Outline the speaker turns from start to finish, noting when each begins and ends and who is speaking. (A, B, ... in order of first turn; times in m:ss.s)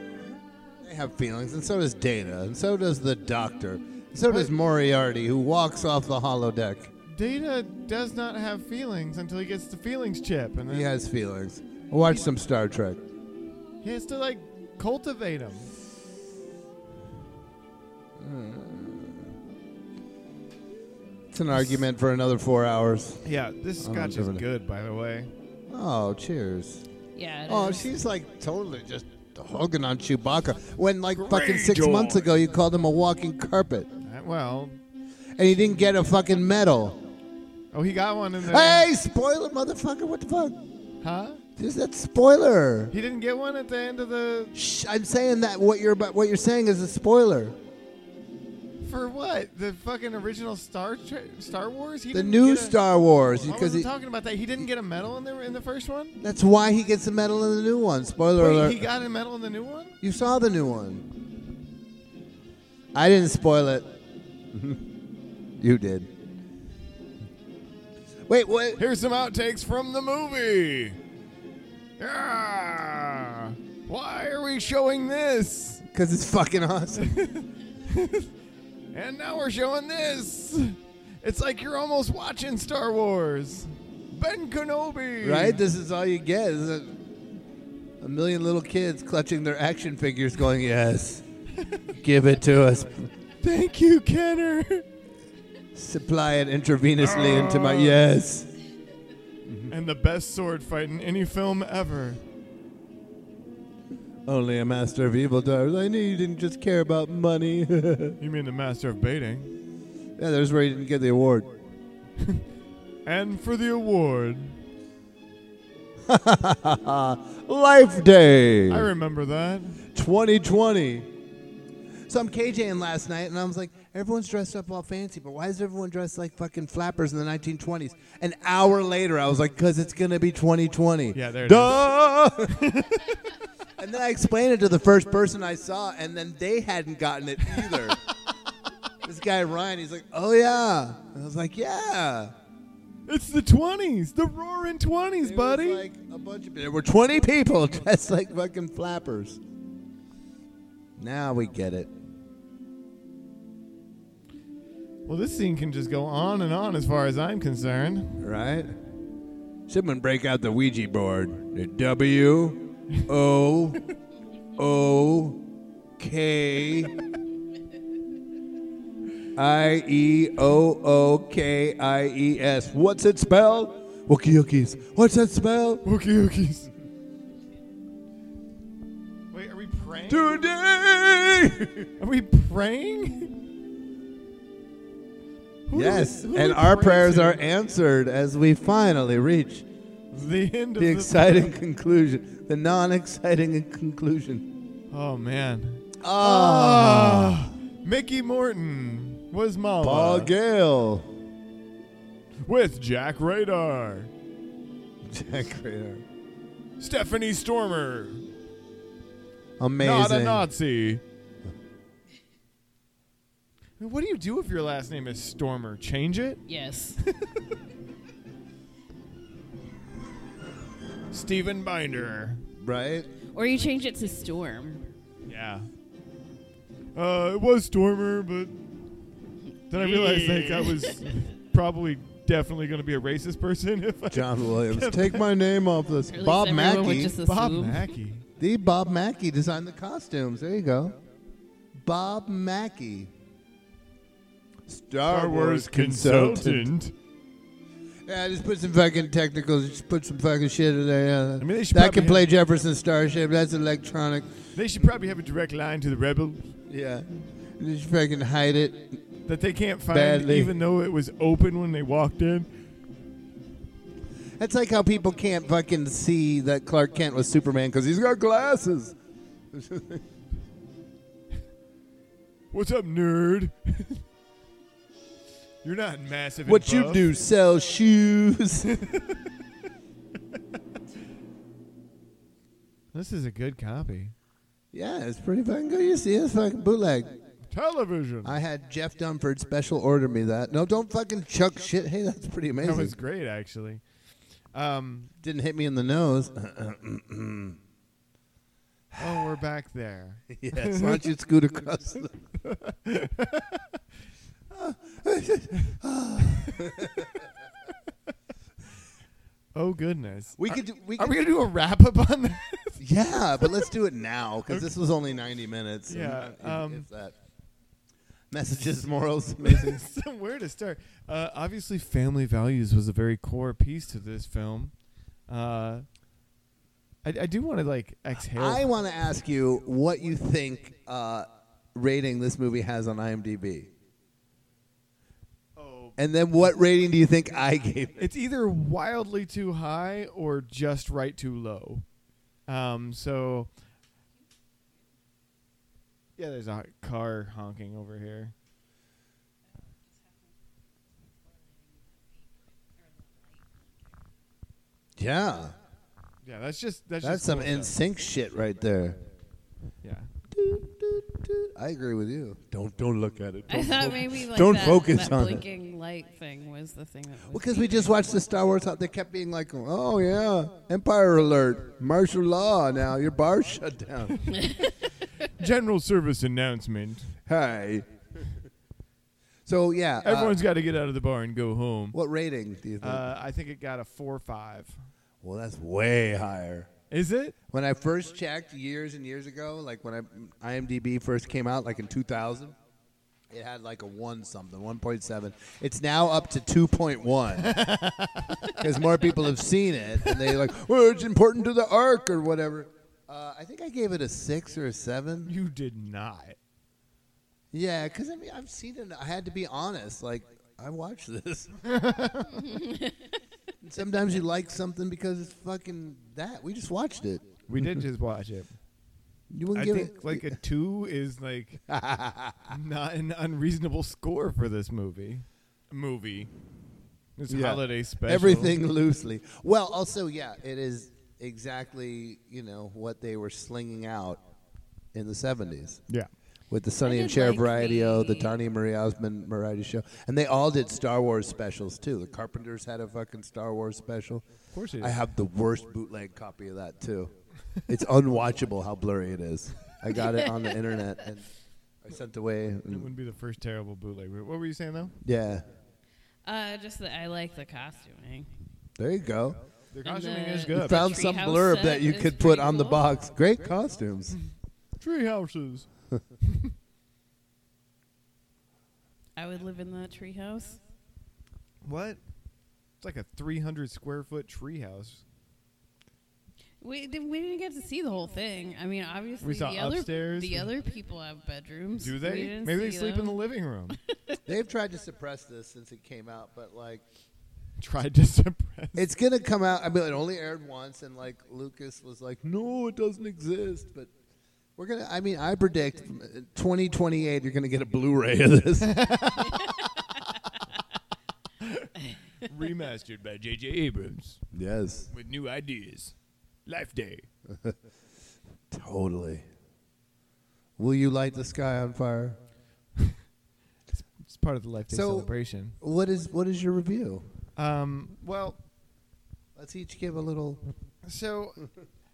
0:00.8-0:06.9 A
0:04.3-0:04.5 B
0:07.1-0:10.9 B
0:10.7-0:13.0 A
0:13.8-0:15.7 B
0:18.2-0:19.3 A
0:21.3-0:23.2 A
0:21.5-0:21.8 B
0:23.2-0:25.3 B
0:23.8-0:24.4 A
0:25.7-0:26.9 A
0:27.2-0:27.9 C
0:27.4-0:33.9 A
0:31.1-0:32.2 B
0:34.0-0:34.8 B
0:35.4-0:37.0 A
0:37.7-0:38.9 B
0:38.4-0:40.6 A
0:41.0-0:41.4 B
0:41.6-0:42.9 A
0:42.9-0:44.6 B
0:44.5-0:47.6 A
0:48.8-0:52.8 B
0:52.1-0:53.9 A
0:53.4-0:56.2 B
0:56.2-0:58.8 A
0:58.4-1:00.0 B
1:00.0-1:01.1 A
1:02.9-1:03.9 A
1:04.5-1:04.8 A
1:05.6-1:06.1 A
1:08.3-1:08.8 A
1:08.8-1:11.0 B
1:12.0-1:15.8 B
1:15.9-1:17.1 A
1:17.0-1:18.3 B
1:18.9-1:25.6 B
1:25.2-1:27.0 A
1:28.0-1:31.2 A
1:32.0-1:33.1 A
1:33.4-1:34.8 B
1:35.8-1:38.5 A
1:37.0-1:38.0 B
1:39.4-1:39.7 A
1:39.7-1:42.2 B
1:44.3-1:48.2 A
1:48.2-1:49.5 B
1:50.2-1:51.6 A
1:53.0-1:54.6 B
1:56.1-1:58.9 A
1:58.7-1:59.8 B
1:59.9-2:01.1 A
2:02.1-2:12.6 A
2:11.1-2:11.8 B
2:12.5-2:13.0 B
2:13.8-2:18.0 A
2:19.0-2:22.3 A
2:23.1-2:25.8 B
2:25.2-2:29.4 A
2:31.0-2:31.9 A
2:35.1-2:38.2 B
2:38.2-2:38.7 A
2:39.7-2:43.8 A
2:44.6-2:45.4 A
2:46.0-2:46.9 A
2:49.4-2:55.8 A
2:55.8-2:56.7 B
2:59.3-3:00.4 B
3:00.1-3:01.9 A
3:02.0-3:03.4 B
3:05.7-3:07.4 B
3:05.7-3:09.6 A
3:10.1-3:11.5 B
3:10.8-3:14.5 A
3:14.9-3:20.3 B
3:16.0-3:17.4 A
3:19.8-3:21.1 A
3:22.5-3:24.1 B
3:25.0-3:26.0 A
3:26.8-3:28.2 B
3:29.6-3:30.5 A
3:29.8-3:31.0 B
3:33.8-3:36.5 B
3:36.5-3:37.0 C
3:41.1-3:42.4 B
3:42.6-3:43.1 A
3:43.3-3:44.8 C
3:45.3-3:45.7 B
3:47.0-3:48.6 B
3:49.7-3:55.2 B
3:49.7-3:51.0 C
3:54.1-3:57.1 A
3:56.1-3:57.9 C
3:57.2-3:58.2 B
3:58.4-4:01.0 A
4:01.8-4:03.1 A
4:04.7-4:06.7 A
4:05.1-4:06.9 B
4:08.1-4:14.3 A
4:11.4-4:12.3 B
4:14.5-4:16.5 B
4:16.7-4:19.0 A
4:19.3-4:22.5 B
4:19.9-4:20.6 A
4:24.4-4:29.0 A
4:29.5-4:30.0 A
4:32.5-4:34.0 B
4:35.6-4:37.1 B
4:36.4-4:38.7 A
4:38.7-4:39.2 B
4:42.9-4:44.1 B
4:44.7-4:47.1 A
4:47.5-4:48.4 B
4:48.2-4:53.0 A
4:52.6-4:53.8 B
4:54.5-4:55.1 B
4:55.2-4:57.6 A
4:58.9-4:59.3 A
4:59.0-5:01.0 B
5:00.3-5:02.2 A
5:02.4-5:03.6 B
5:04.5-5:07.2 A
5:06.4-5:06.7 B
5:09.6-5:12.8 B
5:10.4-5:11.2 A
5:12.8-5:17.2 A
5:15.9-5:16.9 B
5:18.3-5:19.8 A
5:19.4-5:24.7 B
5:25.3-5:25.9 B
5:27.0-5:28.6 B
5:28.2-5:33.7 A
5:35.6-5:36.0 B
5:36.0-5:38.1 A
5:38.0-5:41.8 B
5:42.5-5:43.5 B
5:46.2-5:48.3 B
5:55.0-5:55.6 A
5:56.2-5:57.8 B
5:57.0-5:59.0 A
5:59.8-6:00.1 B
6:00.3-6:05.4 A
6:03.5-6:07.9 C
6:07.3-6:14.2 A
6:14.4-6:14.7 C
6:15.4-6:17.2 B
6:17.3-6:18.3 A
6:19.5-6:20.4 A
6:20.0-6:22.0 B
6:21.9-6:23.1 A
6:22.8-6:24.8 B
6:25.2-6:26.7 A
6:26.9-6:27.4 B
6:27.5-6:32.6 A
6:33.3-6:37.6 A
6:37.4-6:38.6 B
6:38.5-6:45.3 A
6:40.0-6:40.4 B
6:45.3-6:46.4 B
6:47.5-6:51.6 A
6:51.7-6:52.4 B
6:52.5-6:52.9 C
6:53.6-6:57.8 A
6:57.5-6:58.5 B
6:59.3-7:00.4 A
6:59.5-7:01.6 B
7:01.7-7:02.5 A
7:02.5-7:06.3 B
7:07.2-7:08.6 B
7:07.3-7:14.2 A
7:14.9-7:15.8 A
7:16.5-7:24.3 A
7:16.8-7:18.4 C
7:24.5-7:25.0 B
7:24.8-7:27.1 A
7:27.7-7:31.3 A
7:30.2-7:30.5 C
7:31.8-7:32.9 A
7:32.7-7:35.0 B
7:35.0-7:35.4 A
7:36.2-7:38.3 C
7:38.8-7:39.4 A
7:39.7-7:41.0 B
7:39.8-7:43.0 C
7:40.5-7:44.2 A
7:44.8-7:45.7 B
7:46.2-7:46.5 B
7:49.2-7:50.6 C
7:51.6-7:52.0 B
7:52.8-7:55.0 B
7:56.6-8:03.2 C
7:59.2-8:00.5 B
8:01.8-8:03.8 B
8:04.3-8:06.8 A
8:07.6-8:08.8 B
8:08.8-8:13.9 A
8:14.6-8:18.8 A
8:18.6-8:19.4 B
8:21.4-8:21.7 B
8:22.2-8:24.2 B
8:24.3-8:24.9 A
8:24.9-8:26.0 B
8:26.5-8:27.1 B
8:27.3-8:27.6 A
8:28.5-8:29.2 A
8:30.6-8:32.2 A
8:33.7-8:35.6 B
8:34.7-8:37.1 A
8:37.4-8:38.4 B
8:39.4-8:40.4 A
8:40.9-8:41.4 B